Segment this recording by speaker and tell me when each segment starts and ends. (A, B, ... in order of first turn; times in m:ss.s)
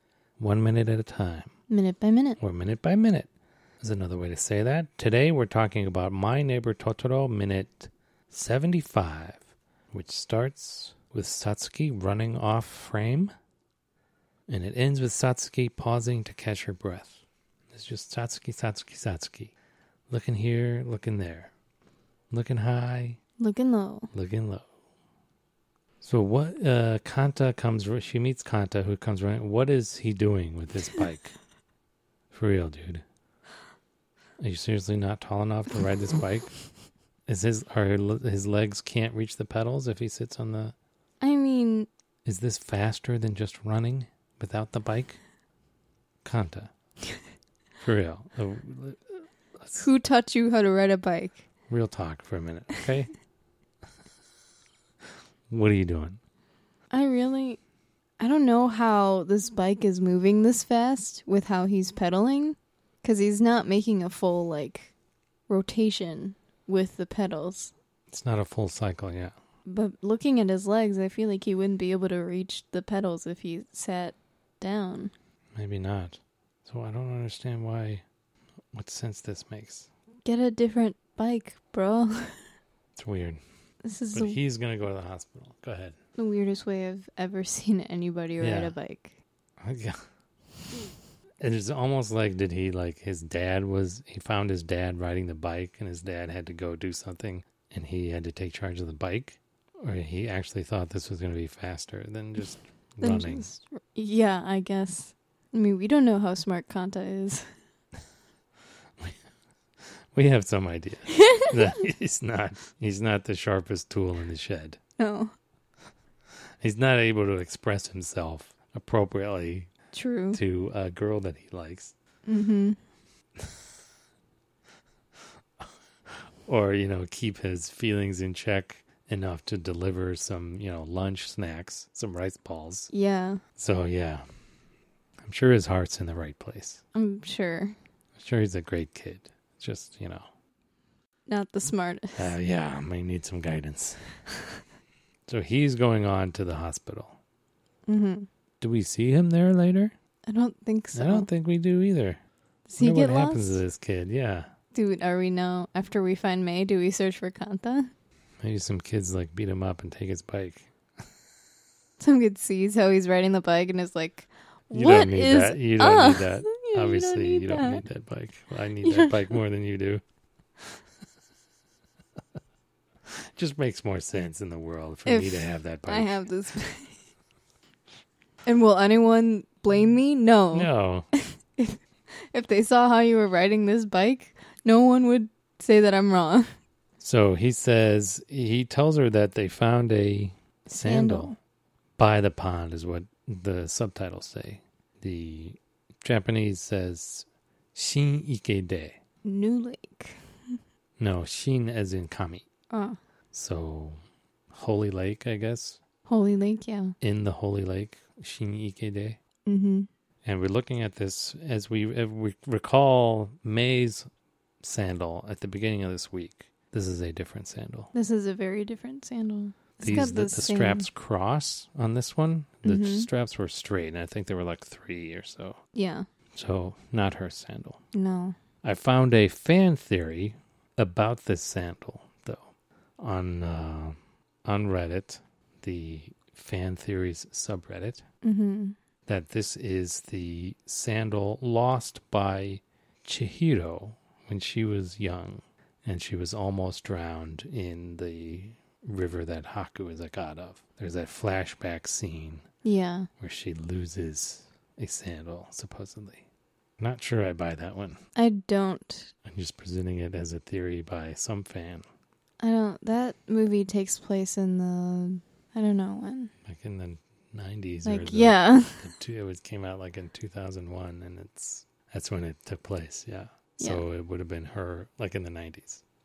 0:00.4-0:01.5 A
0:01.7-0:02.4 B
0:02.4-0:03.3 A
0:03.8-0:13.3 A
0:14.5-0:19.5 A
0:20.1-0:21.5 A
0:22.3-0:23.2 A
0:23.4-0:24.1 B
0:24.1-0:24.7 A
0:26.0-0:31.4 A
0:32.3-0:33.0 A
0:34.4-0:36.5 A
0:37.3-0:40.8 A
0:41.2-0:41.9 B
0:42.2-0:45.2 A
0:46.2-0:46.7 A
0:47.8-0:49.8 A
0:49.7-0:51.4 B
0:51.7-0:53.1 A
0:55.5-0:56.2 A
0:56.9-0:57.6 B
0:58.2-1:04.9 B
1:05.5-1:07.7 B
1:08.1-1:09.3 A
1:09.7-1:15.1 B
1:15.6-1:18.0 A
1:18.7-1:19.9 A
1:20.2-1:22.5 B
1:23.0-1:23.4 A
1:23.8-1:24.4 B
1:24.1-1:26.0 A
1:26.2-1:29.2 B
1:28.4-1:28.8 A
1:29.6-1:30.0 A
1:31.4-1:43.5 A
1:43.0-1:47.5 B
1:50.2-1:54.8 A
1:51.2-1:51.6 B
1:55.0-1:55.3 B
1:56.6-1:59.7 A
1:59.9-2:00.4 B
2:00.3-2:01.9 A
2:02.3-2:02.8 B
2:06.1-2:12.9 A
2:12.9-2:13.4 B
2:13.6-2:14.2 A
2:15.2-2:16.8 A
2:16.9-2:17.8 B
2:18.2-2:20.3 A
2:21.3-2:22.4 B
2:22.2-2:24.2 A
2:25.3-2:27.2 A
2:27.9-2:28.3 B
2:28.6-2:29.9 A
2:30.3-2:31.3 B
2:30.9-2:32.2 A
2:32.7-2:33.6 B
2:32.8-2:34.5 A
2:34.7-2:37.9 B
2:38.4-2:40.7 A
2:42.0-2:47.8 B
2:44.7-2:50.0 A
2:48.8-2:49.4 B
2:53.4-2:56.2 A
2:55.1-2:57.0 B
2:58.5-3:06.5 B
3:00.5-3:01.1 A
3:07.0-3:11.4 A
3:10.8-3:11.3 B
3:12.0-3:19.0 A
3:19.2-3:20.2 B
3:21.0-3:22.5 A
3:22.7-3:23.0 B
3:23.3-3:24.0 A
3:24.5-3:25.8 A
3:26.1-3:27.0 B
3:27.0-3:29.2 A
3:29.5-3:29.9 B
3:30.2-3:34.1 A
3:34.6-3:37.9 A
3:37.9-3:40.9 B
3:39.8-3:45.6 A
3:42.6-3:43.1 B
3:45.7-3:46.1 B
3:46.4-3:47.8 A
3:47.9-3:48.4 B
3:48.6-3:58.0 A
3:58.2-3:58.8 B
3:59.1-4:12.4 A
4:12.6-4:13.1 B
4:13.2-4:16.2 A
4:16.8-4:18.0 A
4:18.2-4:19.1 B
4:19.2-4:21.9 A
4:22.4-4:26.3 B
4:26.5-4:35.8 A
4:27.8-4:28.9 B